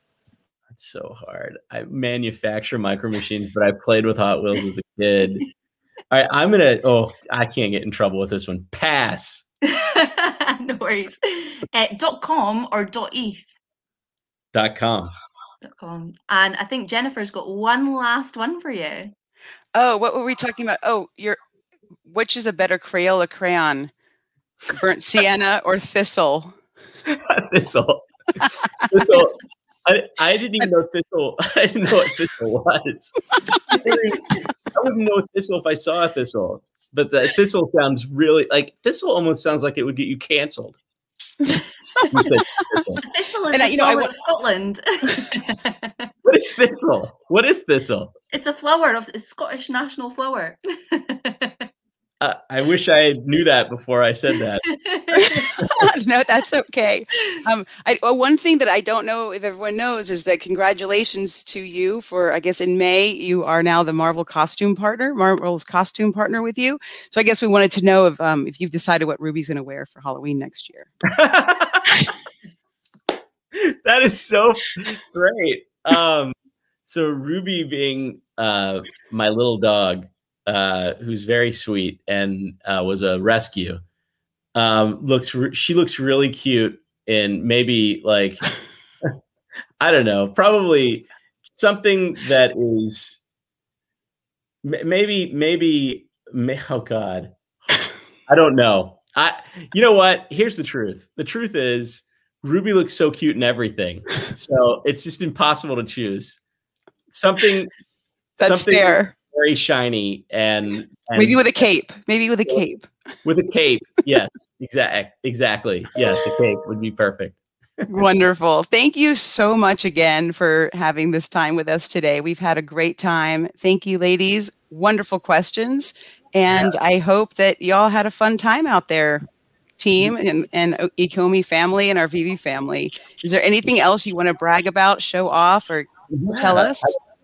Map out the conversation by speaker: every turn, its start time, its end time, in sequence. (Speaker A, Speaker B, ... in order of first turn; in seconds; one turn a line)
Speaker A: 0.7-5.4
Speaker A: 6.1-9.4
Speaker B: 9.6-13.5
Speaker A: 14.5-15.1
Speaker B: 15.6-19.1
Speaker C: 19.7-21.4
Speaker C: 22.1-23.9
Speaker C: 24.7-26.5
Speaker A: 27.1-28.1
Speaker A: 28.8-33.2
Speaker A: 33.8-40.8
Speaker A: 42.1-43.0
Speaker B: 43.0-46.1
Speaker C: 43.5-44.1
Speaker A: 46.2-48.1
Speaker B: 48.3-51.6
Speaker A: 52.2-54.7
Speaker B: 54.6-55.6
Speaker C: 55.1-70.9
Speaker A: 71.1-71.9
Speaker A: 73.5-76.3
Speaker A: 76.8-83.8
Speaker A: 84.5-89.1
Speaker A: 89.8-93.2
Speaker A: 94.6-97.3
Speaker A: 98.3-106.4
Speaker A: 107.1-107.7
Speaker C: 108.4-109.1
Speaker A: 108.4-111.4
Speaker C: 111.1-112.9
Speaker A: 113.2-117.4
Speaker C: 117.9-129.2
Speaker C: 129.8-136.9
Speaker A: 136.1-136.9